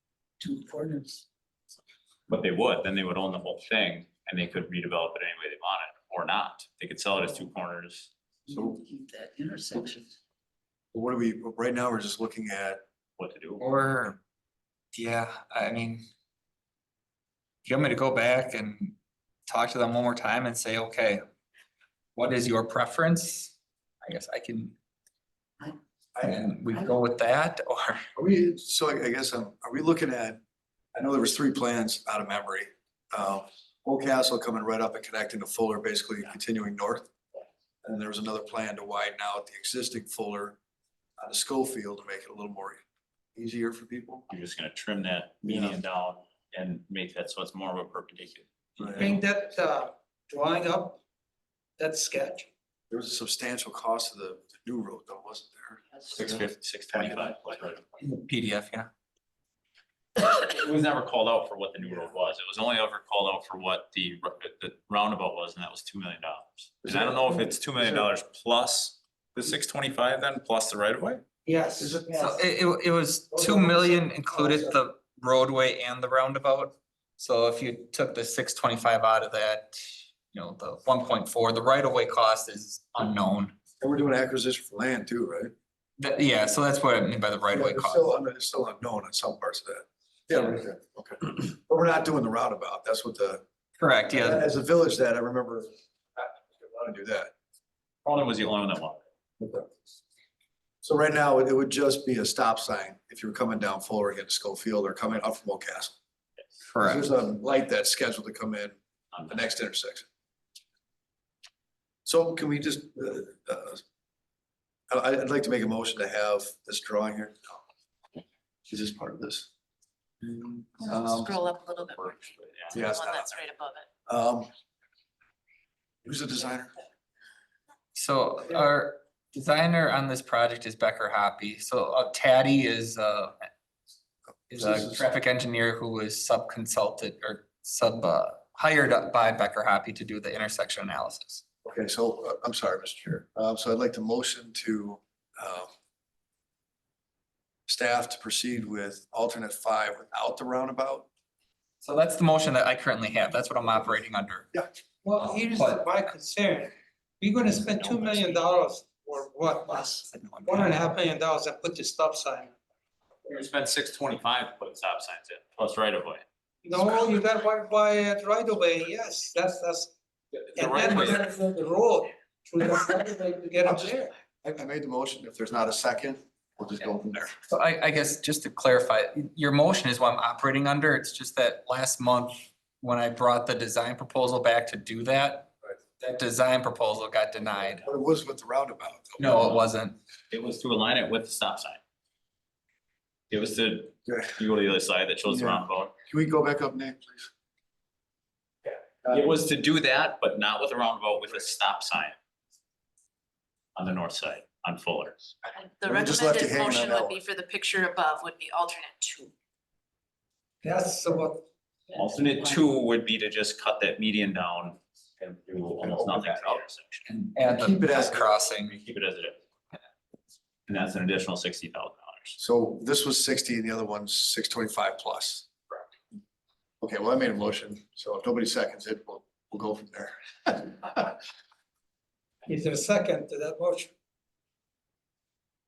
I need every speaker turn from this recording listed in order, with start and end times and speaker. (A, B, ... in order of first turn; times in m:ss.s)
0:00.4-0:01.2 A
0:02.3-0:08.1 B
0:08.5-0:10.2 A
0:08.5-0:08.8 C
0:10.9-0:12.8 C
0:13.2-0:13.6 B
0:13.6-0:14.2 D
0:14.9-0:16.0 D
0:17.6-0:19.0 D
0:19.5-0:21.2 D
0:22.2-0:24.7 D
0:26.2-0:26.5 C
0:26.2-0:28.0 D
0:26.7-0:27.0 A
0:28.2-0:30.4 C
0:30.9-0:37.1 C
0:37.8-0:40.6 C
0:41.2-0:42.8 C
0:43.4-0:44.3 C
0:44.3-0:49.1 B
0:45.4-0:45.8 C
0:48.8-0:49.2 C
0:49.0-0:51.0 E
0:51.8-0:52.5 E
0:52.9-0:57.8 C
0:56.1-0:57.8 B
0:58.0-0:58.9 D
1:00.2-1:11.2 B
1:06.8-1:08.1 C
1:11.4-1:12.0 E
1:11.8-1:12.2 C
1:12.0-1:12.4 A
1:12.2-1:19.8 D
1:13.4-1:13.7 E
1:14.3-1:14.7 E
1:20.3-1:23.6 D
1:23.8-1:25.5 C
1:26.0-1:28.1 D
1:27.5-1:33.4 C
1:33.8-1:34.5 D
1:34.1-1:37.3 C
1:38.0-1:39.0 B
1:39.4-1:39.7 C
1:40.8-1:46.0 C
1:46.7-1:47.1 D
1:46.8-1:50.1 C
1:52.0-1:53.8 C
1:54.9-1:57.6 C
1:58.7-1:59.5 C
2:00.7-2:03.9 F
2:00.8-2:01.4 C
2:02.0-2:02.8 B
2:02.7-2:03.3 C
2:04.1-2:04.5 C
2:06.0-2:06.8 C
2:07.9-2:13.4 D
2:14.5-2:15.0 C
2:14.5-2:21.4 D
2:21.6-2:25.7 C
2:27.7-2:31.1 C
2:31.8-2:34.5 D
2:35.0-2:42.5 E
2:35.5-2:35.8 D
2:37.6-2:38.4 B
2:39.8-2:40.9 D
2:43.2-2:46.2 B
2:46.6-2:49.9 E
2:50.3-2:51.3 B
2:50.5-2:54.1 E
2:53.6-2:57.4 C
2:57.5-3:07.8 D
3:07.8-3:09.6 C
3:09.2-3:10.0 D
3:10.3-3:11.8 B
3:13.3-3:15.9 B
3:14.0-3:14.4 C
3:15.3-3:17.3 C
3:18.7-3:22.2 B
3:19.0-3:19.4 C
3:23.7-3:25.3 B
3:25.6-3:29.3 F
3:25.8-3:27.2 C
3:30.6-3:31.4 E
3:31.9-3:37.0 B
3:35.8-3:36.6 C
3:37.1-3:38.8 D
3:37.4-3:38.3 C
3:38.7-3:39.4 B
3:40.7-3:42.4 B
3:42.4-3:45.4 C
3:46.8-3:51.2 C
3:52.4-3:53.9 E